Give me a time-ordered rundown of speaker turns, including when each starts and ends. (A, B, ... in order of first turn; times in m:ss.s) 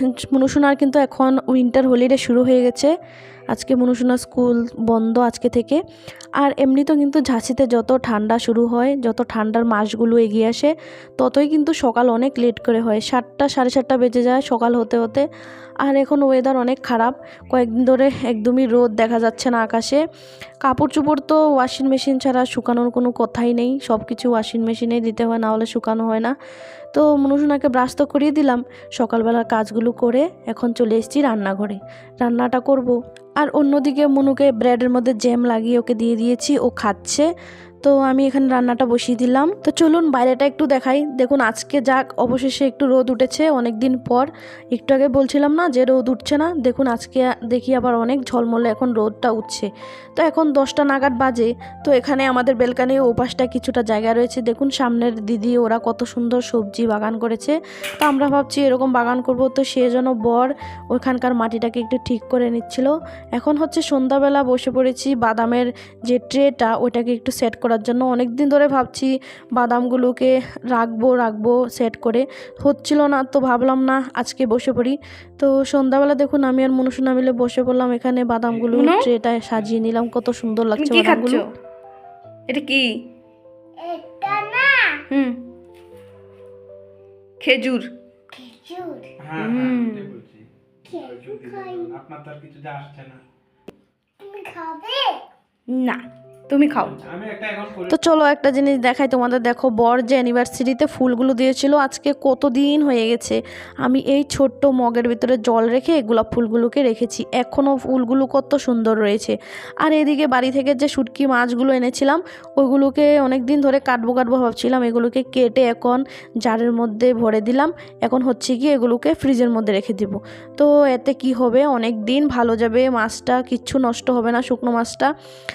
0:00.3-0:02.9 A
0:03.5-0:05.8 A
0:06.4-0:15.2 A
0:15.8-0:20.0 A
0:20.6-0:26.3 A
0:26.9-0:37.3 A
0:37.8-1:21.4 A
1:18.7-1:19.1 B
1:20.8-1:21.4 B
1:22.5-1:22.9 B
1:23.8-1:25.0 C
1:25.1-1:25.4 B
1:27.4-1:27.9 B
1:28.3-1:29.1 C
1:29.2-1:33.2 D
1:29.4-1:30.1 B
1:30.8-1:31.9 C
1:34.2-1:35.2 C
1:35.7-1:37.0 B
1:36.7-1:38.0 D
1:37.9-2:05.1 A